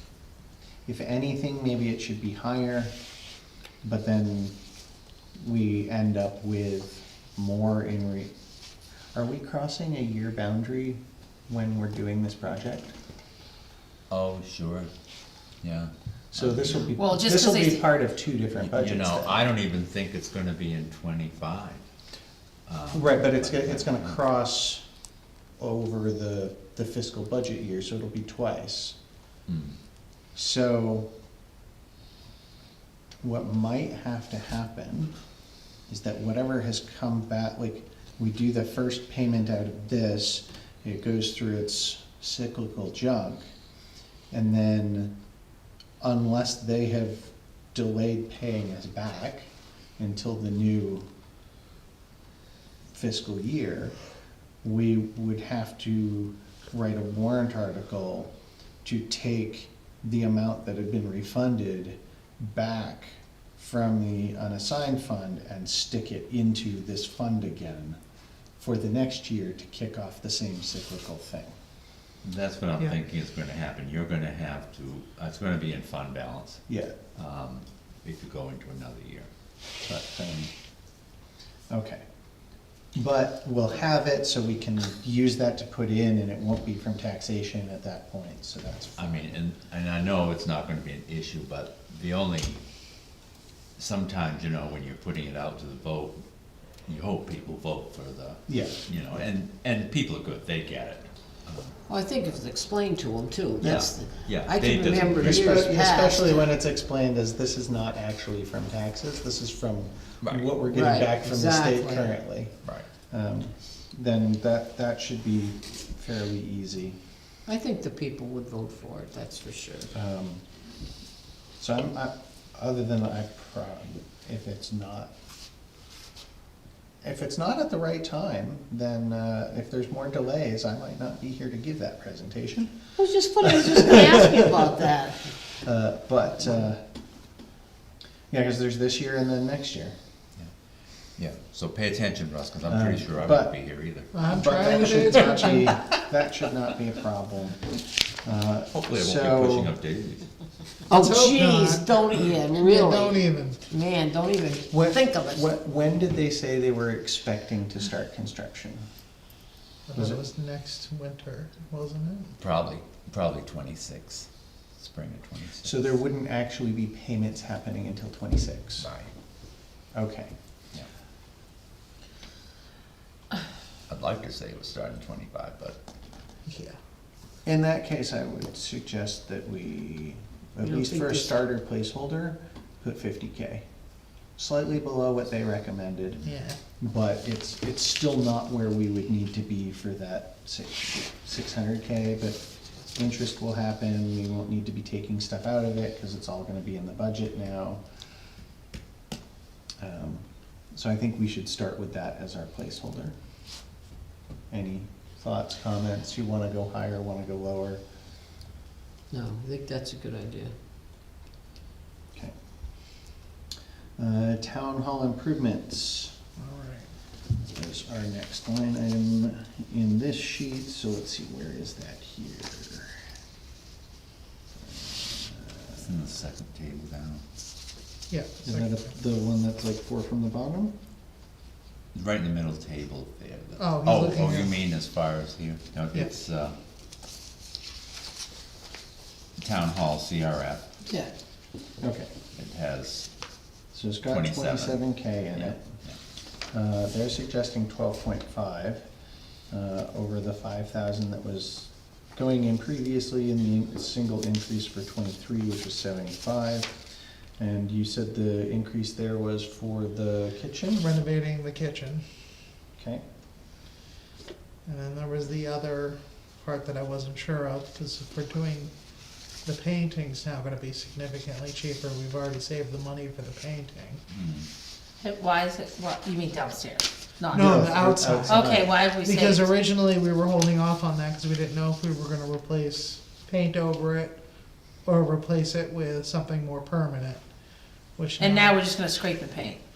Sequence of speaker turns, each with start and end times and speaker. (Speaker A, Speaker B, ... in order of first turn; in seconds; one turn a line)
Speaker A: 0.9-2.9
Speaker A: 3.8-4.5
Speaker A: 5.4-8.3
Speaker A: 9.1-12.9
Speaker B: 14.1-14.9
Speaker B: 15.6-16.9
Speaker A: 16.3-19.4
Speaker C: 17.0-17.9
Speaker B: 18.6-21.8
Speaker B: 22.7-24.2
Speaker A: 22.9-24.9
Speaker A: 25.6-29.0
Speaker B: 29.5-29.8
Speaker A: 30.3-31.1
Speaker A: 33.2-35.1
Speaker A: 35.9-43.4
Speaker A: 44.3-45.1
Speaker A: 46.0-51.1
Speaker A: 52.9-54.0
Speaker A: 54.6-58.3
Speaker A: 58.8-68.0
Speaker A: 68.6-71.5
Speaker B: 72.2-79.3
Speaker A: 76.7-77.0
Speaker A: 79.8-80.5
Speaker A: 81.7-82.0
Speaker A: 83.0-89.3
Speaker B: 89.0-92.6
Speaker B: 93.8-96.2
Speaker B: 96.9-101.8
Speaker A: 98.5-99.2
Speaker D: 101.9-106.5
Speaker A: 103.6-103.9
Speaker B: 103.6-105.6
Speaker A: 105.2-112.5
Speaker B: 110.2-110.6
Speaker D: 110.7-112.2
Speaker A: 113.1-117.0
Speaker D: 117.5-119.9
Speaker A: 119.9-120.4
Speaker A: 121.6-125.1
Speaker A: 127.0-132.9
Speaker D: 133.0-135.4
Speaker A: 133.4-134.3
Speaker A: 135.6-136.8
Speaker A: 138.3-140.0
Speaker B: 141.2-144.1
Speaker A: 142.7-143.5
Speaker E: 144.1-145.7
Speaker A: 144.2-149.7
Speaker B: 148.7-150.3
Speaker D: 150.9-155.5
Speaker E: 150.9-153.6
Speaker A: 154.7-158.8
Speaker E: 159.9-162.3
Speaker A: 159.9-160.2
Speaker B: 162.4-165.9
Speaker A: 165.6-168.9
Speaker A: 169.9-170.3
Speaker B: 173.9-175.8
Speaker E: 176.5-176.8
Speaker A: 177.4-183.7
Speaker D: 180.6-181.3
Speaker A: 184.4-192.4
Speaker E: 186.2-186.6
Speaker A: 192.9-197.8
Speaker A: 199.8-203.1
Speaker A: 204.5-207.8
Speaker D: 209.1-210.5
Speaker A: 214.0-216.1
Speaker E: 216.4-216.9
Speaker A: 217.5-222.9
Speaker A: 224.7-225.9
Speaker B: 225.8-227.2
Speaker E: 228.1-228.9
Speaker A: 228.4-230.7
Speaker B: 231.9-236.6
Speaker E: 233.6-234.6
Speaker B: 239.4-240.7
Speaker A: 241.8-242.1
Speaker B: 242.3-243.1
Speaker A: 243.7-245.6
Speaker B: 244.1-246.0
Speaker A: 246.5-248.8
Speaker A: 249.5-256.8
Speaker A: 257.4-260.9
Speaker E: 260.7-262.1
Speaker A: 262.8-263.0
Speaker E: 264.7-274.0
Speaker B: 274.1-274.5
Speaker C: 275.0-277.5
Speaker E: 277.3-284.2
Speaker A: 277.3-278.7
Speaker C: 278.2-279.5
Speaker E: 284.9-287.2
Speaker E: 287.9-288.6
Speaker C: 288.2-289.6